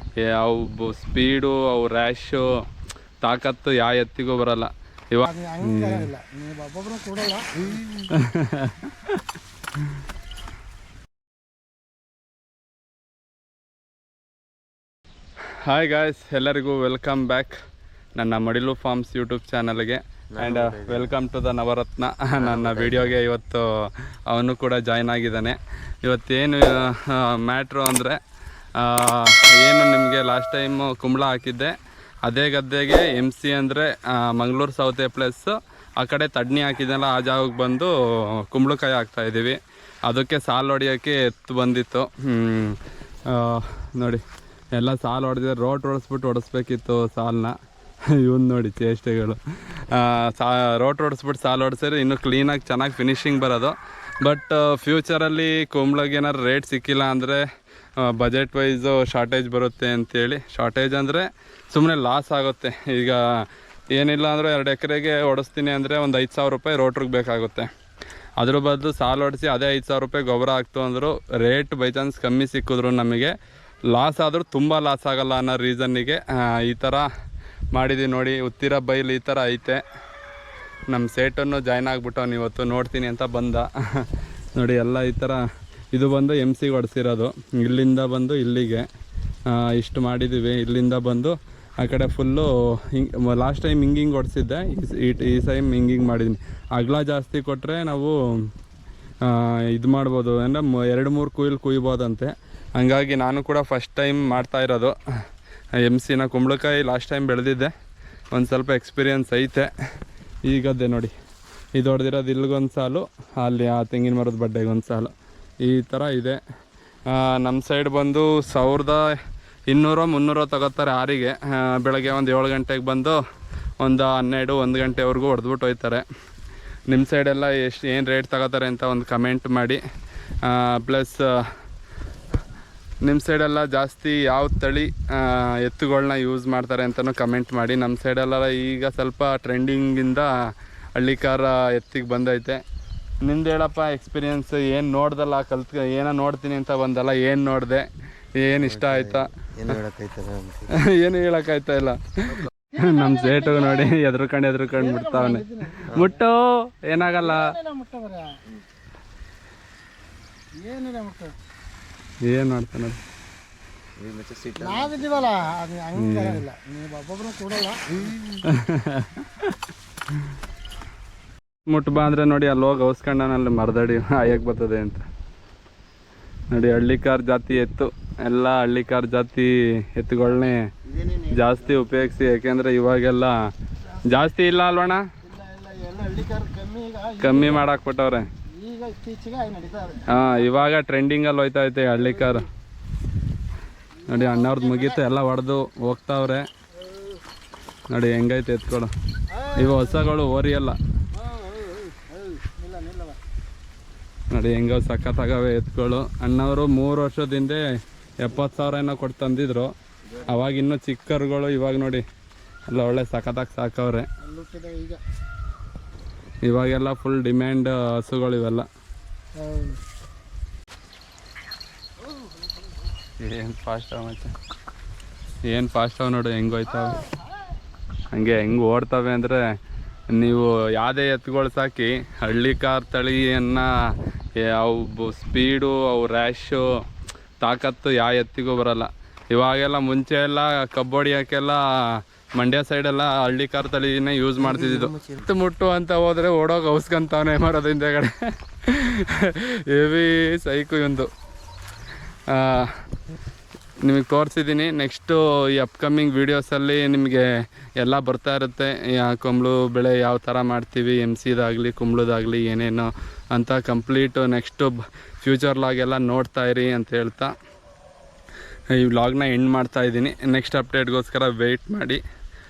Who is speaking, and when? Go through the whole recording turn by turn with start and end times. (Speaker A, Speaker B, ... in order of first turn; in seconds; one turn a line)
Speaker A: 0.2-2.5
Speaker A: 3.2-6.1
Speaker B: 5.2-7.8
Speaker A: 7.8-9.2
Speaker A: 15.6-17.6
Speaker A: 18.2-28.2
Speaker C: 20.3-21.2
Speaker C: 22.4-23.2
Speaker A: 28.8-31.7
Speaker A: 32.3-44.2
Speaker A: 44.8-47.6
Speaker A: 48.1-57.5
Speaker A: 58.0-67.7
Speaker A: 68.4-73.3
Speaker A: 73.9-77.1
Speaker A: 77.7-79.8
Speaker A: 80.9-85.4
Speaker A: 85.9-88.9
Speaker A: 89.5-98.5
Speaker A: 99.2-105.0
Speaker A: 105.8-107.7
Speaker A: 108.3-109.7
Speaker A: 110.5-111.1
Speaker A: 111.8-115.1
Speaker A: 115.6-116.4
Speaker A: 117.1-119.2
Speaker A: 119.7-123.2
Speaker A: 123.8-126.0
Speaker A: 126.9-129.8
Speaker A: 130.4-131.5
Speaker A: 133.0-140.3
Speaker A: 141.0-142.6
Speaker A: 143.2-149.8
Speaker C: 148.6-150.8
Speaker A: 150.7-157.5
Speaker B: 152.7-153.9
Speaker B: 154.8-156.2
Speaker B: 157.0-158.3
Speaker B: 160.6-161.3
Speaker A: 162.2-163.0
Speaker C: 164.0-165.5
Speaker B: 164.6-167.9
Speaker A: 165.9-166.4
Speaker A: 168.4-169.6
Speaker A: 171.7-175.1
Speaker A: 176.5-185.1
Speaker B: 185.2-187.7
Speaker A: 187.2-188.3
Speaker B: 188.5-190.4
Speaker A: 190.1-192.5
Speaker B: 194.0-195.0
Speaker A: 194.1-196.5
Speaker A: 197.9-198.9
Speaker B: 199.3-200.0
Speaker A: 199.5-200.8
Speaker B: 201.2-203.2
Speaker A: 204.3-207.6
Speaker A: 208.2-209.7
Speaker A: 210.2-212.1
Speaker A: 212.7-214.1
Speaker B: 214.2-215.0
Speaker A: 216.4-218.7
Speaker B: 219.4-219.8
Speaker A: 223.2-224.3
Speaker A: 225.4-227.1
Speaker A: 228.1-229.4
Speaker A: 230.1-236.8
Speaker A: 237.4-251.1
Speaker C: 244.7-245.2
Speaker A: 252.3-252.8
Speaker A: 253.8-267.3
Speaker A: 268.7-272.0